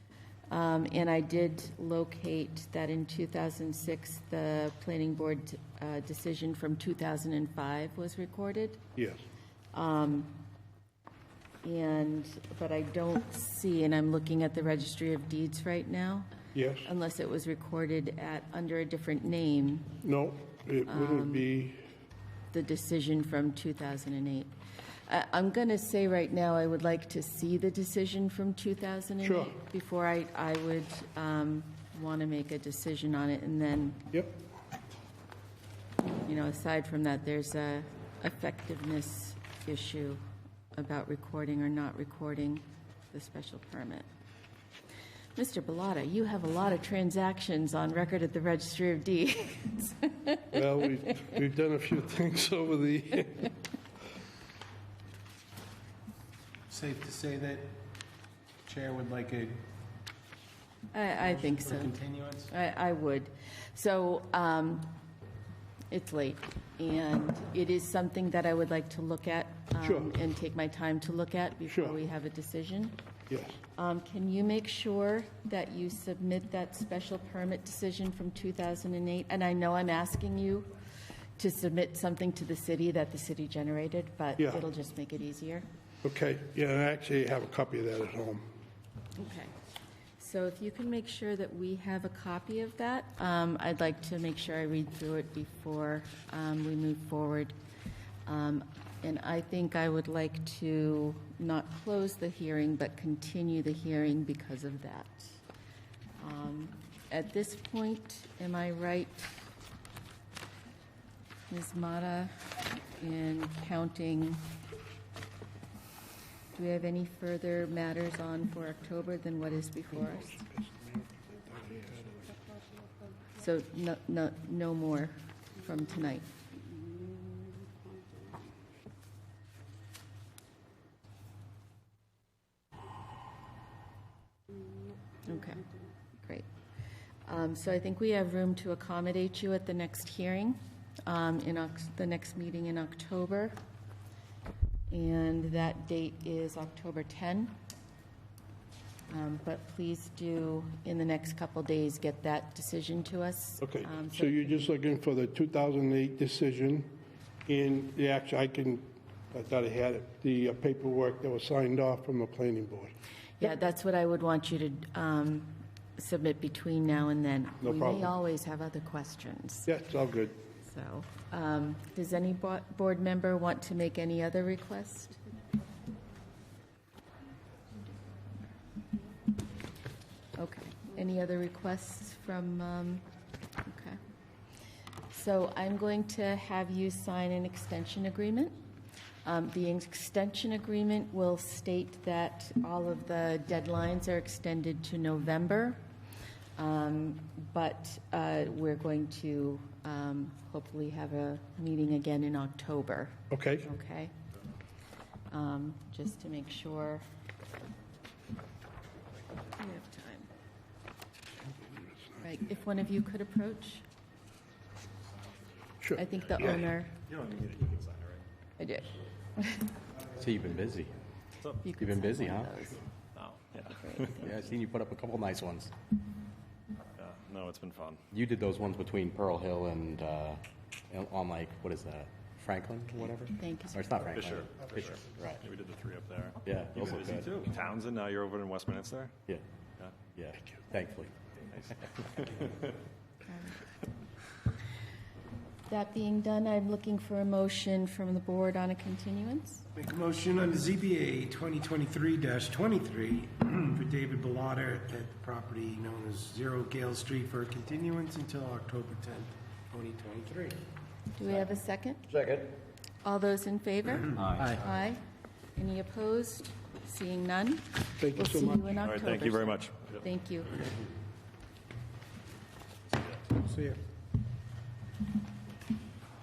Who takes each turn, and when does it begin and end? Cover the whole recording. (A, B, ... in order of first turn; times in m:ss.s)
0:00.5-0:08.8 A
0:09.0-0:09.2 B
0:09.7-0:10.4 A
0:11.6-0:16.3 A
0:16.5-0:16.9 B
0:16.8-0:20.0 A
0:20.0-0:21.8 B
0:20.8-0:21.5 A
0:22.5-0:24.5 A
0:25.1-0:34.1 A
0:29.2-0:29.5 B
0:36.2-0:40.2 A
0:40.7-0:44.1 A
0:45.3-0:51.3 A
0:50.5-0:53.5 B
0:56.7-0:57.8 C
0:58.6-0:59.7 C
1:00.9-1:02.0 A
1:01.2-1:02.5 C
1:02.5-1:04.9 A
1:05.9-1:13.0 A
1:09.8-1:10.1 B
1:11.7-1:12.0 B
1:13.3-1:13.6 B
1:13.8-1:20.7 A
1:21.4-1:25.6 A
1:24.4-1:24.6 B
1:26.0-1:28.4 B
1:29.2-1:29.5 A
1:30.2-1:37.6 A
1:38.2-1:45.4 A
1:46.2-1:49.4 A
1:51.5-1:54.5 A
1:56.5-2:00.4 A
2:00.0-2:02.3 B
2:03.4-2:06.3 A
2:15.2-2:16.5 A
2:17.2-2:23.6 A
2:24.9-2:27.5 A
2:29.1-2:34.8 A
2:33.6-2:42.9 B
2:43.4-2:49.7 A
2:47.6-2:48.1 B
2:49.7-2:50.4 B
2:50.6-2:55.2 A
3:00.4-3:03.0 A
3:03.6-3:04.0 A
3:05.1-3:08.6 A
3:09.2-3:15.8 A
3:16.6-3:24.1 A
3:23.3-3:23.7 B
3:25.3-3:27.0 A
3:29.6-3:30.3 A
3:31.4-3:32.4 B
3:32.2-3:33.8 A
3:35.8-3:36.5 B
3:36.0-3:36.9 A
3:36.1-3:38.2 D
3:38.6-3:39.7 A
3:40.1-3:40.9 E
3:41.6-3:42.8 A
3:41.8-3:42.7 E
3:43.1-3:44.1 D
3:43.7-3:44.4 A
3:44.1-3:45.7 E
3:47.0-3:48.0 D
3:48.1-3:55.4 E
3:53.0-3:54.1 A
3:54.1-3:59.1 D
3:56.4-3:57.3 E
4:00.1-4:01.1 E
4:01.5-4:02.6 D
4:03.2-4:03.8 A
4:05.7-4:09.6 A
4:09.7-4:20.6 C
4:21.1-4:22.0 A
4:23.0-4:25.0 A
4:24.2-4:24.6 E
4:25.6-4:30.7 A
4:28.0-4:28.8 B
4:28.8-4:30.0 D
4:33.4-4:33.8 C